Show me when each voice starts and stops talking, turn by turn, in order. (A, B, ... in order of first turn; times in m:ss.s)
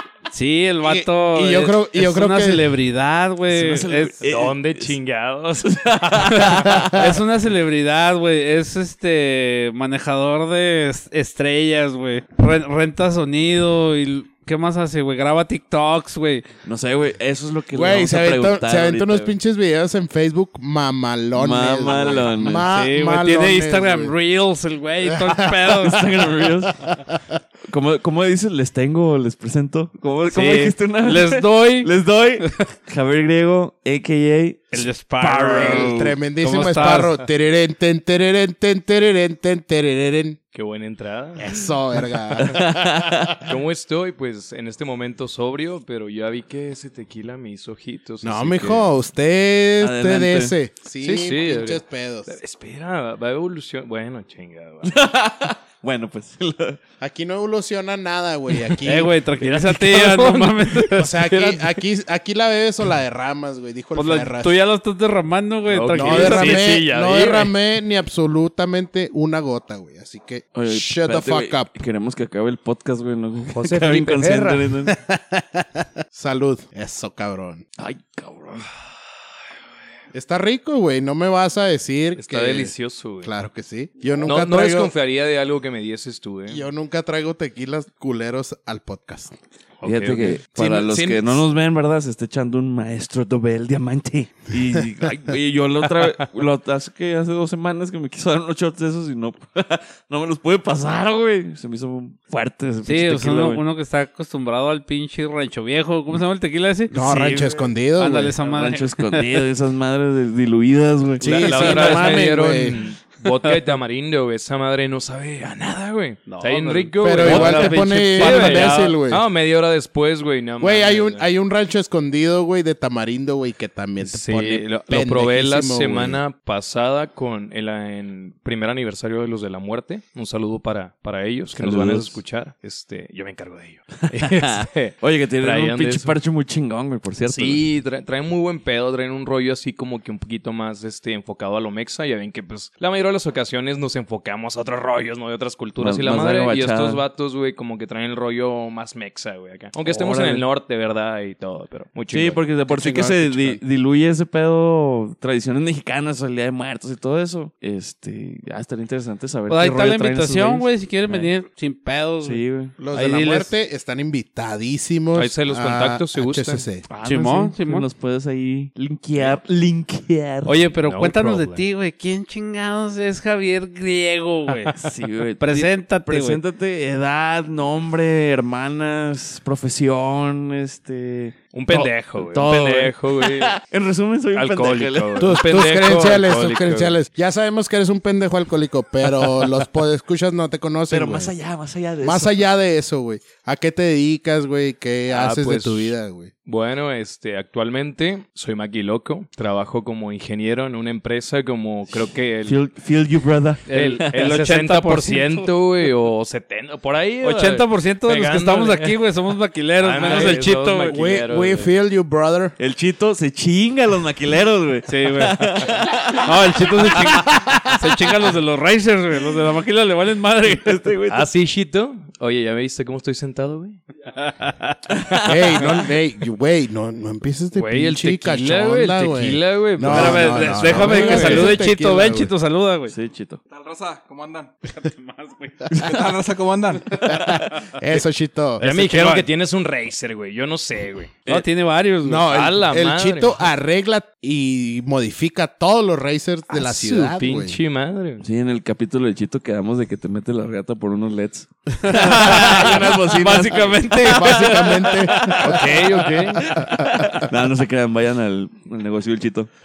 0:00.3-0:04.2 A
0:00.8-0:02.7 B
0:03.5-0:04.9 C
0:04.3-0:06.6 D
0:05.7-0:07.1 C
0:06.3-0:16.5 A
0:06.6-0:06.9 B
0:16.6-0:19.4 C
0:17.7-0:24.2 B
0:21.4-0:22.7 C
0:22.7-0:26.2 A
0:25.0-0:25.4 B
0:25.7-0:26.9 C
0:27.7-0:36.2 C
0:30.3-0:31.9 A
0:34.7-0:37.2 A
0:35.5-0:40.4 B
0:40.5-0:41.7 D
0:41.4-0:42.7 B
0:42.4-0:43.4 C
0:43.4-0:48.9 D
0:48.2-0:52.3 B
0:49.8-0:50.5 C
0:51.0-0:55.0 D
0:54.8-0:56.8 C
0:57.0-0:59.1 B
0:58.8-1:01.1 A
0:59.4-1:01.7 D
1:00.9-1:04.6 B
1:04.0-1:06.6 A
1:05.7-1:07.5 D
1:05.9-1:11.7 B
1:10.6-1:14.9 C
1:13.5-1:14.7 D
1:14.9-1:17.6 B
1:17.8-1:18.7 C
1:20.1-1:24.9 B
1:22.2-1:23.3 D
1:24.2-1:26.6 D
1:26.5-1:29.4 B
1:29.8-1:30.4 D
1:29.8-1:43.6 C
1:30.6-1:31.4 B
1:42.8-1:47.4 A
1:46.9-1:48.4 B
1:48.0-1:49.5 A
1:48.4-1:52.3 C
1:51.2-2:01.3 D
1:51.3-1:52.8 B
1:56.3-1:59.0 A
1:57.0-1:59.2 B
2:00.6-2:06.2 B
2:04.0-2:16.2 D
2:11.6-2:12.2 C
2:14.2-2:17.6 C
2:17.3-2:32.4 D
2:25.8-2:27.0 C
2:29.8-2:30.4 C
2:32.1-2:41.3 C
2:32.7-2:33.6 B
2:39.5-2:43.5 A
2:42.2-2:42.8 C
2:42.8-2:46.8 B
2:45.2-2:46.6 D
2:46.9-2:50.5 C
2:47.0-2:47.9 A
2:50.4-2:54.7 A
2:50.8-2:51.7 D
2:54.8-3:05.4 C
2:55.4-2:56.4 A
3:01.5-3:03.6 D
3:04.3-3:07.0 D
3:05.2-3:11.3 B
3:10.9-3:12.4 C
3:12.0-3:16.3 B
3:15.1-3:16.0 D
3:16.5-3:22.6 D
3:22.5-3:24.1 C
3:23.7-3:25.5 A
3:23.7-3:29.0 D
3:27.2-3:31.0 A
3:29.8-3:31.7 D
3:30.0-3:32.6 B
3:32.6-3:38.1 C
3:34.9-3:35.4 A
3:36.2-3:40.8 A
3:40.5-3:41.3 C
3:41.1-3:43.8 D
3:44.2-3:44.8 A
3:45.0-3:45.4 C
3:45.2-3:52.3 B
3:47.5-3:51.6 D
3:49.8-3:53.0 A
3:52.9-3:53.4 C
3:53.5-3:54.5 E
3:54.7-3:55.8 A
3:55.8-3:57.1 E
3:57.1-3:57.5 C
3:57.1-3:58.6 B
3:58.6-3:59.3 A
3:58.6-4:01.4 D
4:01.3-4:02.3 A
4:02.0-4:07.6 B
4:02.2-4:03.4 D
4:06.5-4:08.2 D
4:08.2-4:14.6 C
4:11.8-4:15.4 A
4:12.0-4:13.4 B
4:14.0-4:15.8 B
4:15.2-4:16.6 D
4:15.2-4:19.5 C
4:16.6-4:17.2 B